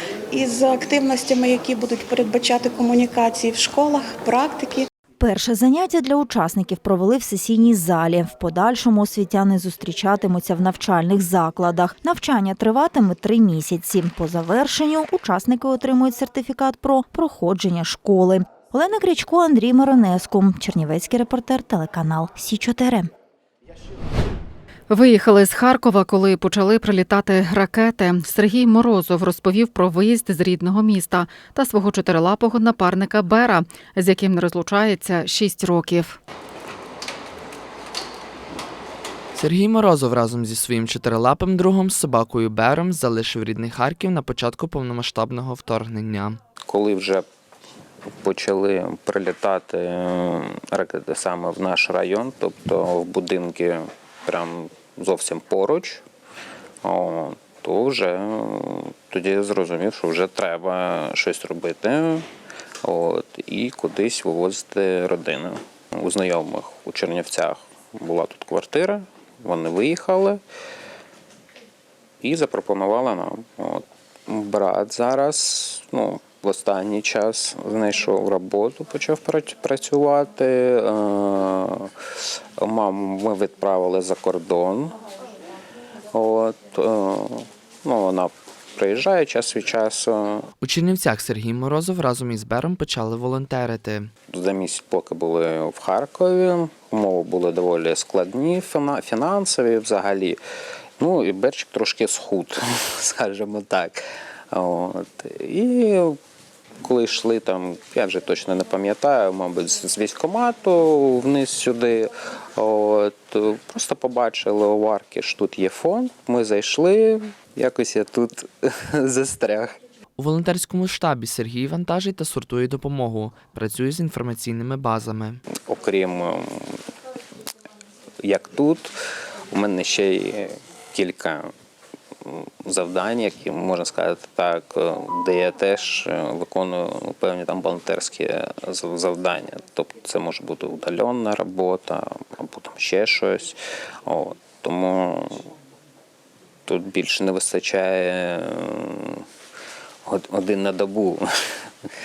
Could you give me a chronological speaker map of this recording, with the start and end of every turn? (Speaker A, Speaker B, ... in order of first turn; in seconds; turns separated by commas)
Speaker A: 0.3-4.9, Speaker B: 5.2-23.1, Speaker C: 24.9-36.2, Speaker D: 39.4-46.4, Speaker E: 46.7-47.3, Speaker E: 48.2-56.0, Speaker E: 56.8-62.2, Speaker E: 62.8-70.4, Speaker E: 72.2-81.9, Speaker E: 82.6-85.0, Speaker E: 86.1-90.5, Speaker D: 90.6-94.1, Speaker E: 94.3-100.4, Speaker E: 101.0-104.0, Speaker E: 104.5-106.2, Speaker E: 106.8-119.7, Speaker D: 120.2-125.4, Speaker E: 125.6-126.8, Speaker E: 128.2-128.9, Speaker E: 129.5-131.5, Speaker E: 132.3-145.5, Speaker E: 146.7-149.2, Speaker E: 150.1-151.2